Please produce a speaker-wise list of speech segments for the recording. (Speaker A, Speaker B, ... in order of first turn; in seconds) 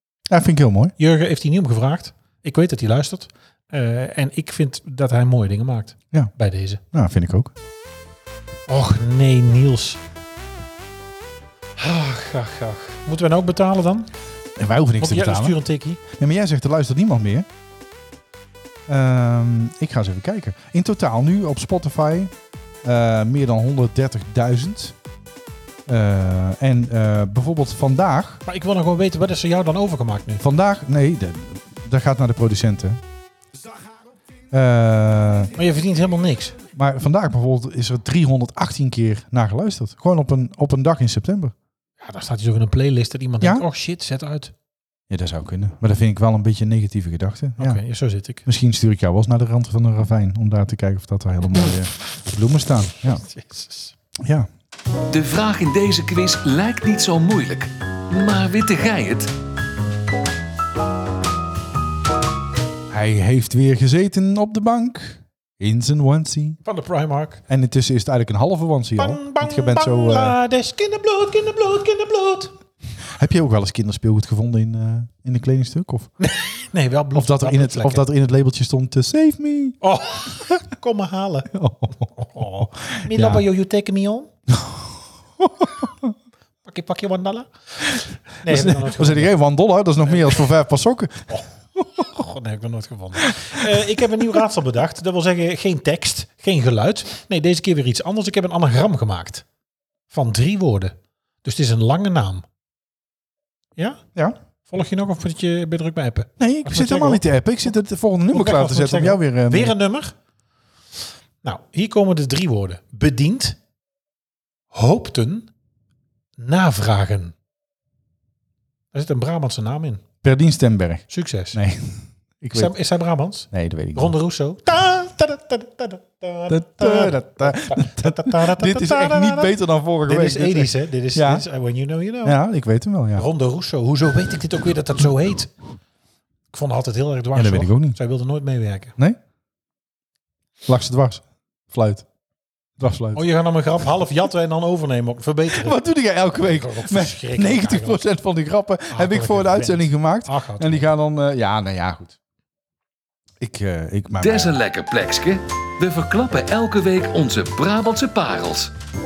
Speaker A: 0.3-0.9, 6.9-7.5, 14.6-17.5, 18.9-22.3, 22.8-25.0, 25.9-28.4, 30.4-33.0, 34.5-35.5, 36.7-41.5, 45.1-47.8, 48.5-53.2, 54.2-54.5, 62.9-66.6, 67.5-70.4, 73.1-76.1, 77.2-79.8, 81.5-83.5, 84.5-86.1, 88.5-92.2, 106.4-109.8, 120.2-122.7, 123.5-124.2, 126.5-131.4, 132.2-133.3, 137.3-138.0, 140.7-142.1, 142.8-143.2, 145.5-152.2, 153.4-154.6
Speaker B: 1.0-6.8, 8.7-10.0, 11.8-14.1, 15.0-16.0, 28.4-30.4, 35.6-36.6, 42.0-44.5, 47.6-48.5, 53.1-53.9, 66.7-67.4, 69.0-72.5, 76.2-78.1, 79.8-81.5, 82.2-84.3, 86.6-89.4, 90.1-90.5, 92.1-99.5, 100.1-102.5, 103.8-104.0, 104.7-107.2, 108.3-110.2, 111.4-113.6, 114.7-115.5, 116.4-117.3, 118.9-120.0, 121.1-121.6, 122.5-129.5, 130.1-132.4, 133.2-135.5, 136.5-138.9, 143.2-145.8, 146.3-148.0, 148.9-150.9
Speaker C: 55.1-59.3, 154.2-158.7